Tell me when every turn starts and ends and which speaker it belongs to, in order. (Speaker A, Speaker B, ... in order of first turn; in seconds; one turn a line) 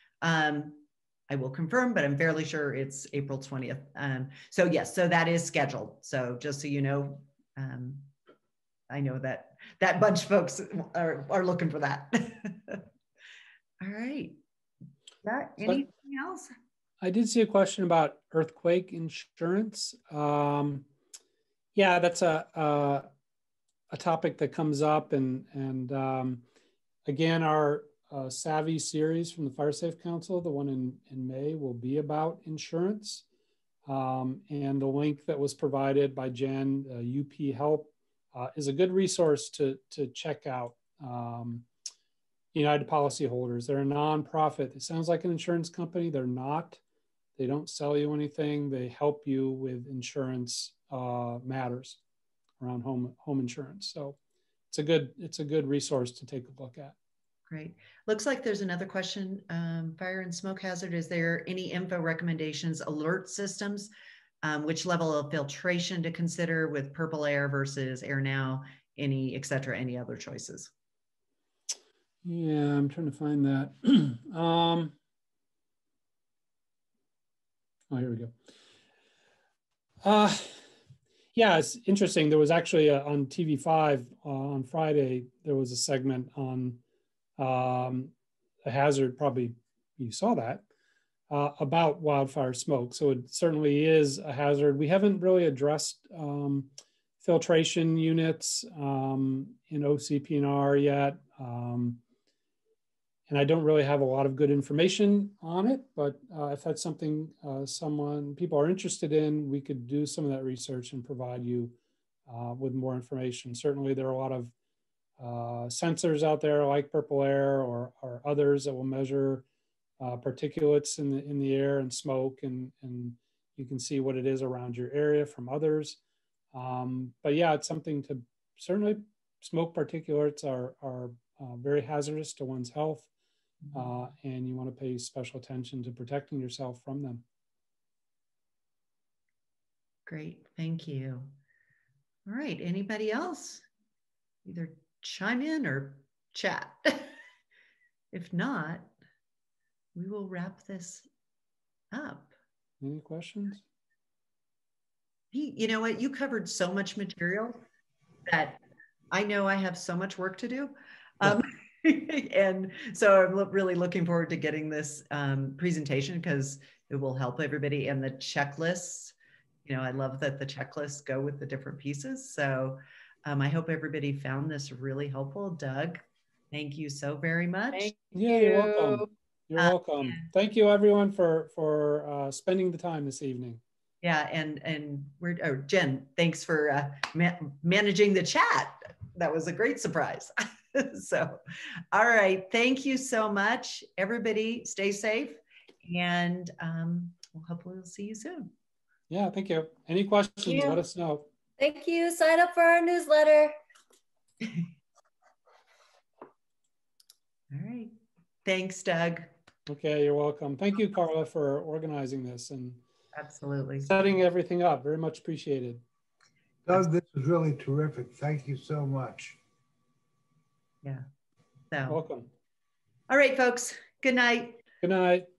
Speaker A: 0.2-8.1
Speaker A: 8.9-12.8
Speaker A: 13.8-14.4
Speaker A: 15.2-16.5
Speaker B: 17.0-20.9
Speaker B: 21.7-23.1
Speaker B: 23.9-26.4
Speaker B: 27.1-33.2
Speaker B: 33.9-41.7
Speaker B: 42.5-46.8
Speaker B: 47.4-52.0
Speaker B: 52.6-54.2
Speaker B: 54.7-56.9
Speaker A: 57.5-63.9
Speaker A: 64.4-70.7
Speaker B: 72.2-74.9
Speaker B: 77.9-78.3
Speaker B: 80.0-80.6
Speaker B: 81.3-86.8
Speaker B: 87.4-88.1
Speaker B: 88.6-90.6
Speaker B: 91.3-96.7
Speaker B: 97.2-102.0
Speaker B: 103.3-111.8
Speaker B: 112.3-114.5
Speaker B: 115.2-119.4
Speaker B: 120.0-126.0
Speaker B: 126.5-133.1
Speaker B: 133.7-137.2
Speaker A: 140.1-141.3
Speaker A: 142.3-143.7
Speaker A: 144.4-147.1
Speaker A: 148.1-148.9
Speaker A: 149.9-151.1
Speaker A: 151.9-152.3
Speaker B: 152.8-153.6
Speaker A: 155.3-157.6
Speaker A: 158.3-177.9
Speaker B: 178.0-183.6
Speaker A: 179.6-180.2
Speaker A: 184.0-191.4
Speaker A: 191.9-198.5
Speaker B: 199.1-201.2
Speaker C: 201.6-203.5
Speaker A: 204.4-204.7
Speaker A: 207.5-209.3
Speaker B: 209.7-212.8
Speaker A: 213.1-213.9
Speaker B: 213.8-215.8
Speaker D: 216.7-219.4
Speaker A: 221.7-222.0
Speaker B: 221.9-222.3
Speaker A: 223.1-224.6
Speaker B: 224.8-225.3